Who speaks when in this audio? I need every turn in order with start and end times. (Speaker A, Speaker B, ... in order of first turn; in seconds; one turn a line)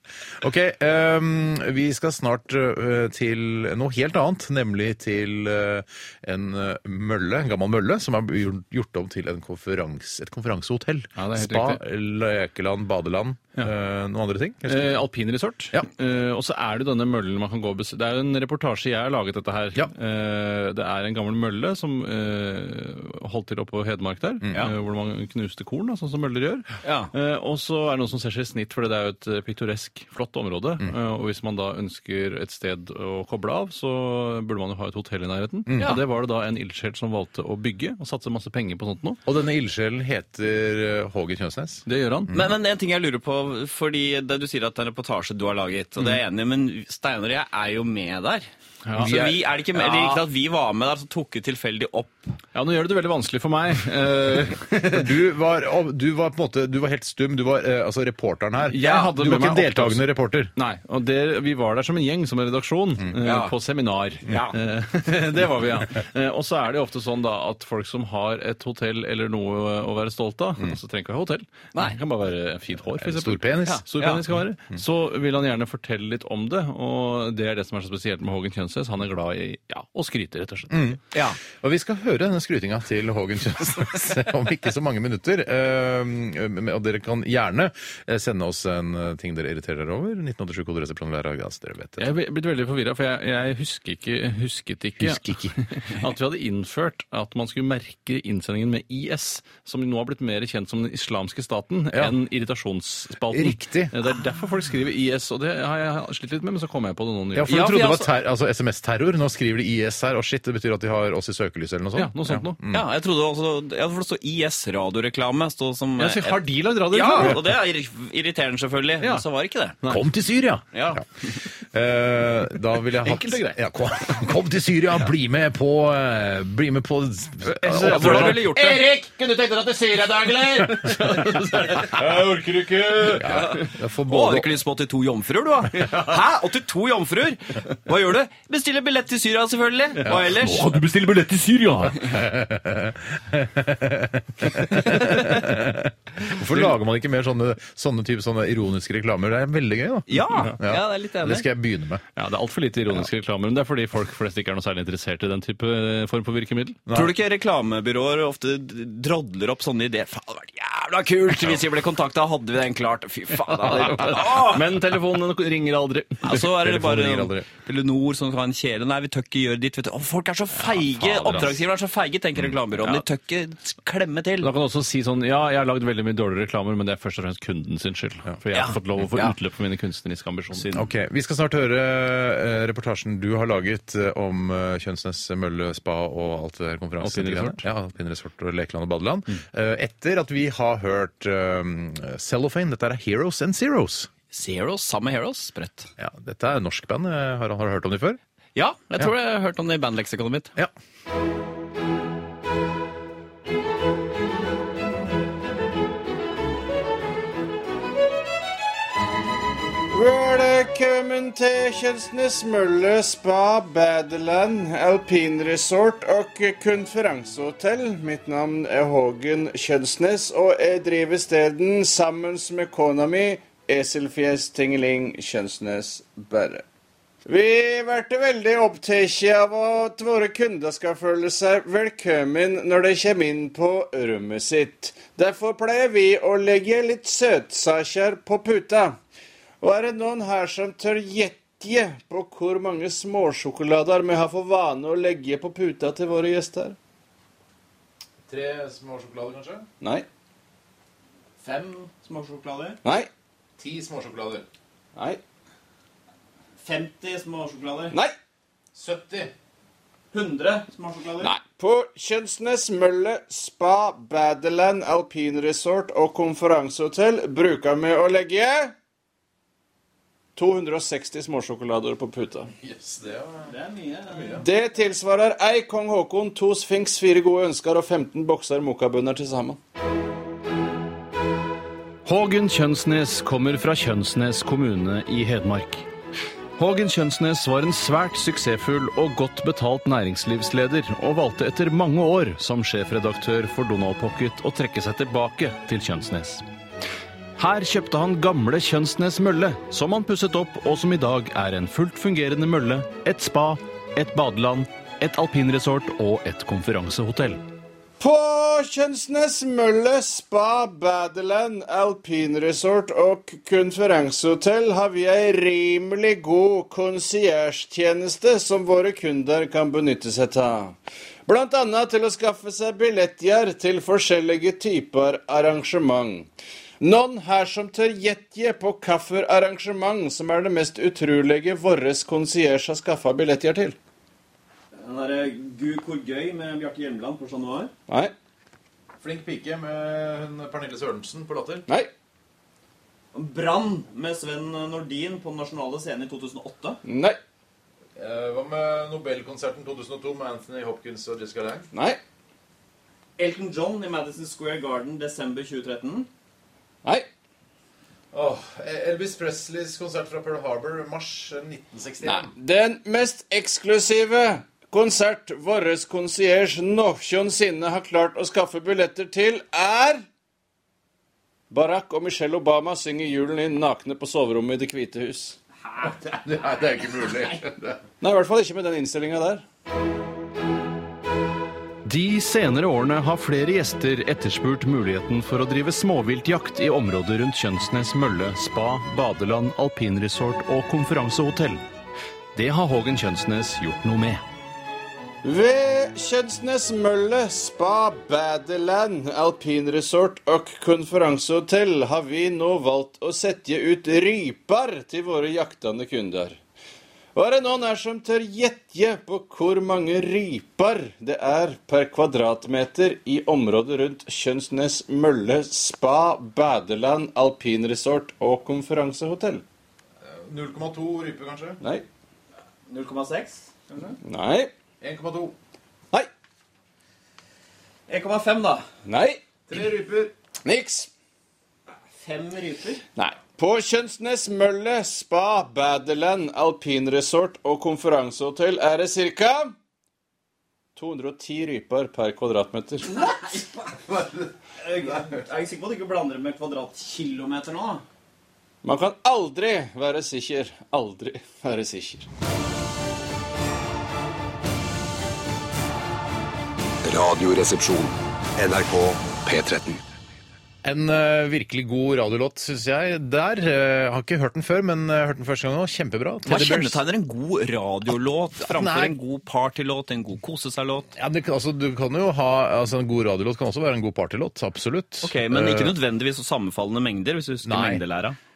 Speaker A: 0.4-15.0
Speaker B: 11.2-11.8
Speaker B: 14.7-39.2
Speaker C: 26.8-27.1
Speaker A: 35.7-35.9
Speaker A: 39.2-42.5
Speaker B: 41.9-42.3
Speaker C: 42.3-52.3
Speaker B: 48.9-49.3
Speaker A: 49.0-50.2
Speaker B: 52.5-55.1
Speaker A: 54.8-60.5
Speaker B: 58.7-81.0
Speaker C: 58.8-59.1
Speaker C: 63.2-63.5
Speaker C: 64.2-64.6
Speaker A: 73.0-73.8
Speaker C: 73.7-74.2
Speaker A: 80.7-92.1
Speaker C: 81.1-81.4
Speaker B: 92.0-107.7
Speaker A: 95.0-95.6
Speaker A: 103.3-103.9
Speaker A: 107.3-112.8
Speaker C: 107.5-108.1
Speaker B: 112.0-112.6
Speaker C: 112.7-119.8
Speaker B: 116.0-117.4
Speaker A: 119.8-121.0
Speaker C: 120.7-121.0
Speaker A: 121.6-131.2
Speaker B: 123.0-123.6
Speaker B: 127.5-128.6
Speaker C: 127.7-128.8
Speaker B: 130.4-133.5
Speaker A: 133.1-134.5
Speaker C: 133.3-140.7
Speaker B: 135.7-136.1
Speaker B: 140.0-142.1
Speaker A: 142.0-152.0
Speaker B: 144.8-145.2
Speaker C: 150.1-151.4
Speaker B: 152.2-156.8
Speaker A: 156.9-157.1
Speaker C: 156.9-164.7
Speaker B: 163.6-166.4
Speaker C: 166.2-174.5
Speaker A: 166.3-167.5
Speaker B: 170.6-171.5
Speaker B: 174.4-180.8
Speaker C: 178.5-179.3
Speaker A: 180.7-194.1
Speaker B: 187.0-187.6
Speaker C: 194.3-195.9
Speaker A: 196.0-198.2
Speaker C: 198.5-200.5
Speaker D: 209.9-226.6
Speaker D: 227.2-239.0
Speaker D: 239.6-246.8
Speaker A: 248.3-249.7
Speaker D: 249.8-250.1
Speaker C: 251.4-252.8
Speaker D: 252.8-253.1
Speaker A: 253.6-254.5
Speaker C: 256.6-258.0
Speaker A: 258.7-259.3
Speaker C: 260.1-261.3
Speaker D: 261.2-268.7
Speaker D: 270.4-272.5
Speaker A: 272.6-273.5
Speaker C: 273.5-274.4
Speaker A: 274.1-274.4
Speaker D: 274.4-279.6
Speaker B: 282.0-285.9
Speaker B: 286.6-296.4
Speaker B: 297.4-307.4
Speaker D: 308.0-326.3
Speaker D: 326.8-333.8
Speaker C: 334.7-337.7
Speaker A: 339.0-341.7
Speaker C: 343.1-346.8
Speaker D: 346.8-347.2
Speaker A: 347.9-351.7
Speaker D: 351.7-352.0
Speaker C: 353.2-356.1
Speaker A: 358.1-362.3
Speaker D: 362.0-370.0
Speaker D: 371.5-375.4
Speaker A: 375.8-377.8
Speaker D: 378.0-379.4
Speaker B: 381.8-391.6
Speaker B: 392.3-394.2
Speaker D: 395.2-406.4
Speaker D: 407.1-419.4
Speaker A: 420.0-421.6
Speaker C: 422.7-424.0
Speaker D: 424.0-424.5
Speaker A: 424.8-425.3
Speaker C: 427.9-428.7
Speaker D: 428.8-429.2
Speaker A: 429.5-430.1
Speaker D: 430.4-430.9
Speaker C: 432.0-432.8
Speaker D: 432.9-439.5
Speaker D: 440.8-443.0
Speaker C: 442.8-444.0
Speaker A: 443.9-444.2
Speaker C: 444.6-447.8
Speaker D: 448.6-452.1
Speaker E: 456.8-459.8
Speaker A: 460.6-466.8
Speaker C: 466.2-470.9
Speaker A: 468.4-468.9
Speaker A: 470.9-475.7
Speaker C: 475.0-478.1
Speaker A: 477.4-477.8